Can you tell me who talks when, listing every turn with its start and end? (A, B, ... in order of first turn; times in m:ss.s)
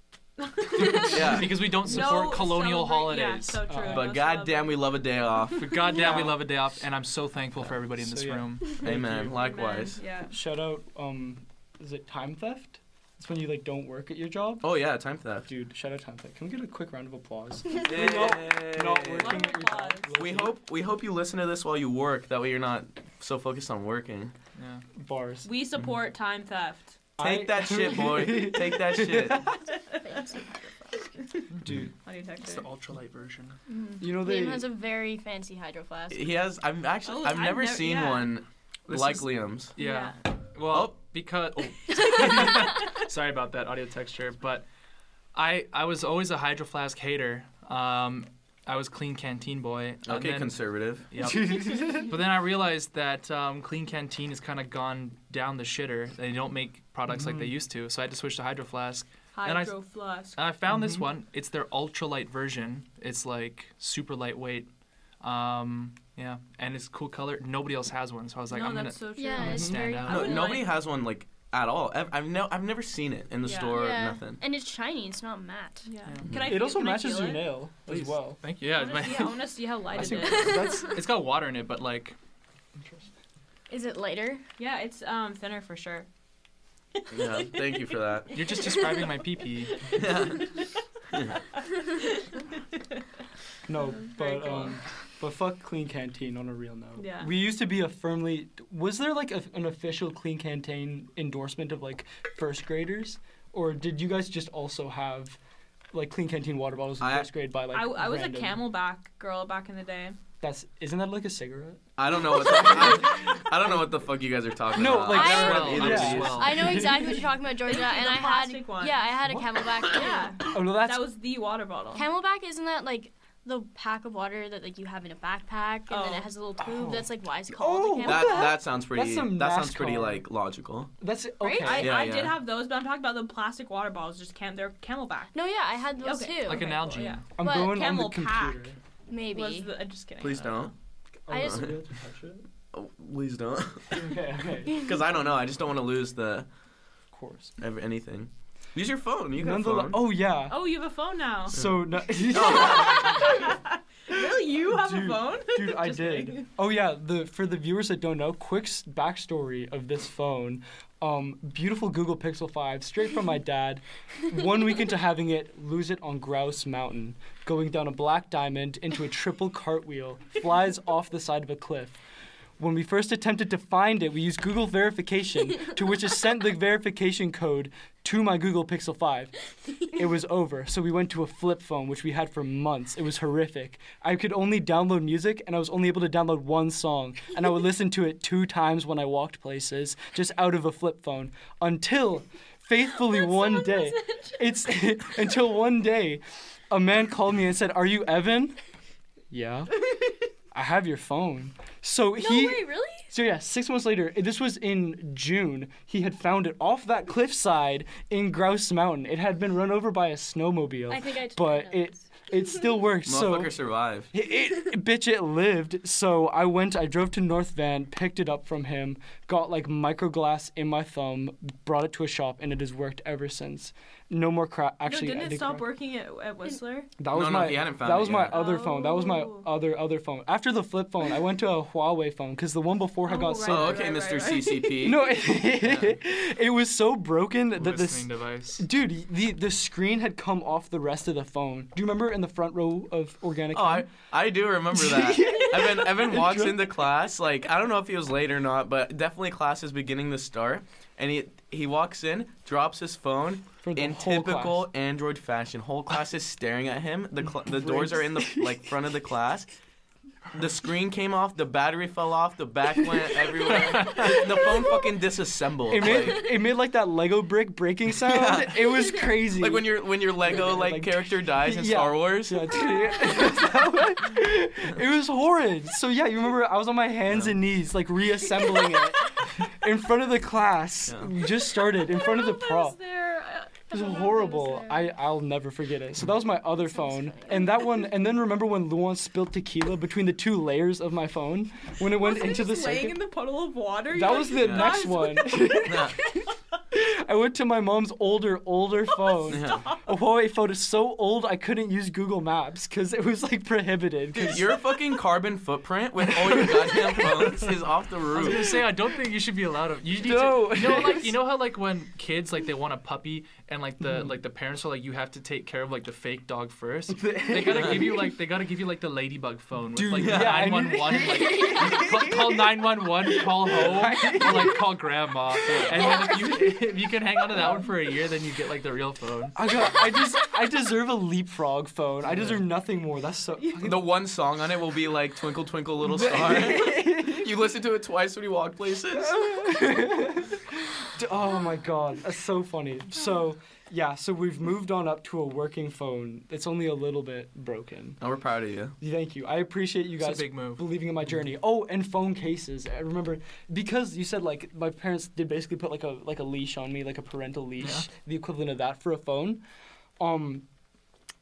0:00.4-0:04.8 A
0:00.8-0:03.6 B
0:01.0-0:01.7 C
0:03.7-0:04.1 D
0:03.8-0:05.8 C
0:05.5-0:09.3 B
0:05.8-0:06.5 D
0:07.6-0:09.3 D
0:08.8-0:10.0 C
0:09.3-0:10.3 A
0:10.3-0:14.7 D
0:14.6-0:15.5 C
0:15.4-0:20.5 D
0:17.8-0:19.4 C
0:19.0-0:20.2 A
0:20.2-0:24.3 C
0:24.6-0:24.8 B
0:25.0-0:25.5 D
0:25.4-0:27.0 A
0:27.2-0:29.6 D
0:27.2-0:29.5 C
0:29.8-0:30.4 A
0:29.9-0:31.1 E
0:31.2-0:31.5 A
0:32.0-0:32.7 A
0:32.4-0:33.6 B
0:33.7-0:36.3 E
0:34.0-0:34.7 D
0:36.1-0:39.7 C
0:37.0-0:38.3 A
0:38.9-0:44.6 B
0:39.8-0:40.2 A
0:40.7-0:40.9 C
0:42.0-0:42.8 A
0:45.3-0:59.7 B
0:50.0-0:51.1 C
0:51.2-0:52.1 D
0:57.1-0:57.5 D
0:59.3-1:00.4 A
1:00.4-1:04.7 B
1:00.7-1:01.0 D
1:05.2-1:10.3 B
1:08.5-1:10.7 A
1:09.2-1:10.6 E
1:09.4-1:09.8 D
1:10.1-1:14.4 C
1:13.4-1:13.8 A
1:13.7-1:15.9 E
1:15.8-1:17.5 A
1:16.2-1:16.5 C
1:16.4-1:18.4 D
1:17.9-1:19.4 B
1:18.7-1:20.8 A
1:19.9-1:21.0 D
1:20.0-1:22.2 B
1:20.4-1:20.9 E
1:22.8-1:23.0 D
1:23.7-1:24.4 E
1:24.6-1:26.1 A
1:27.0-1:27.7 A
1:27.1-1:28.4 C
1:28.3-1:29.2 A
1:28.3-1:30.0 B
1:29.7-1:30.7 A
1:29.9-1:30.5 C
1:31.1-1:31.5 C
1:32.0-1:32.4 A
1:33.7-1:45.4 D
1:33.9-1:34.8 A
1:37.0-1:37.3 A
1:45.9-1:48.7 D
1:47.0-1:47.3 C
1:47.7-1:50.2 A
1:50.4-1:53.9 D
1:52.0-1:56.6 C
1:54.7-1:57.2 D
1:54.8-2:00.5 E
1:55.1-1:56.9 B
1:57.6-1:59.1 A
1:59.8-2:02.1 A
2:00.4-2:01.1 D
2:01.9-2:08.6 E
2:05.9-2:06.3 A
2:06.6-2:10.2 D
2:08.0-2:10.9 C
2:11.0-2:11.9 D
2:11.4-2:11.8 E
2:11.6-2:15.3 A
2:11.7-2:12.4 C
2:15.3-2:17.7 E
2:16.0-2:20.7 A
2:16.4-2:17.2 B
2:17.4-2:18.8 D
2:19.1-2:19.7 E
2:20.2-2:20.7 C
2:21.3-2:22.4 D
2:21.3-2:21.7 E
2:21.3-2:21.7 C
2:22.7-2:26.5 C
2:23.9-2:24.8 D
2:27.1-2:27.6 D
2:27.6-2:30.0 C
2:29.4-2:30.6 D
2:30.5-2:31.6 A
2:31.5-2:33.3 D
2:31.5-2:33.4 C
2:32.2-2:36.5 A
2:34.5-2:52.0 D
2:52.6-3:18.6 D
3:13.2-3:14.4 A
3:19.3-3:33.6 D
3:22.2-3:22.9 E
3:22.5-3:22.8 A
3:30.9-3:32.0 E
3:33.0-3:34.1 C
3:34.1-3:45.7 D
3:44.8-3:46.9 A
3:47.0-3:53.9 D
3:47.1-3:48.4 C
3:48.3-3:49.5 A
3:53.0-3:55.0 A
3:53.4-3:55.1 C
3:54.8-4:03.9 D
3:55.6-3:55.9 B
3:57.6-3:58.6 B
4:03.5-4:19.5 C
4:04.7-4:06.8 D
4:13.6-4:14.7 D
4:17.4-4:18.9 D
4:20.3-4:26.3 C
4:23.4-4:24.2 B
4:25.7-4:42.8 D
4:28.0-4:32.5 C
4:37.1-4:37.4 C
4:41.6-4:44.4 A
4:43.7-4:53.0 D
4:43.7-4:44.9 E
4:46.7-4:47.4 E
4:51.8-4:56.3 A
4:53.9-4:56.2 D
4:54.3-4:55.0 C
4:55.6-4:56.0 C
4:56.7-5:04.7 D
4:59.0-4:59.8 A
4:59.3-4:59.7 C
5:04.1-5:08.6 C
5:06.0-5:07.5 D
5:08.1-5:29.4 B
5:09.8-5:11.2 D
5:16.9-5:18.2 D
5:19.7-5:24.8 D
5:19.9-5:20.6 C
5:25.4-5:27.7 D
5:29.3-5:33.9 D
5:33.6-5:39.3 C
5:35.8-5:37.3 D
5:38.9-5:48.0 D
5:48.0-5:48.8 C
5:48.8-5:59.4 D
5:50.0-5:50.7 B
6:00.0-6:00.4 D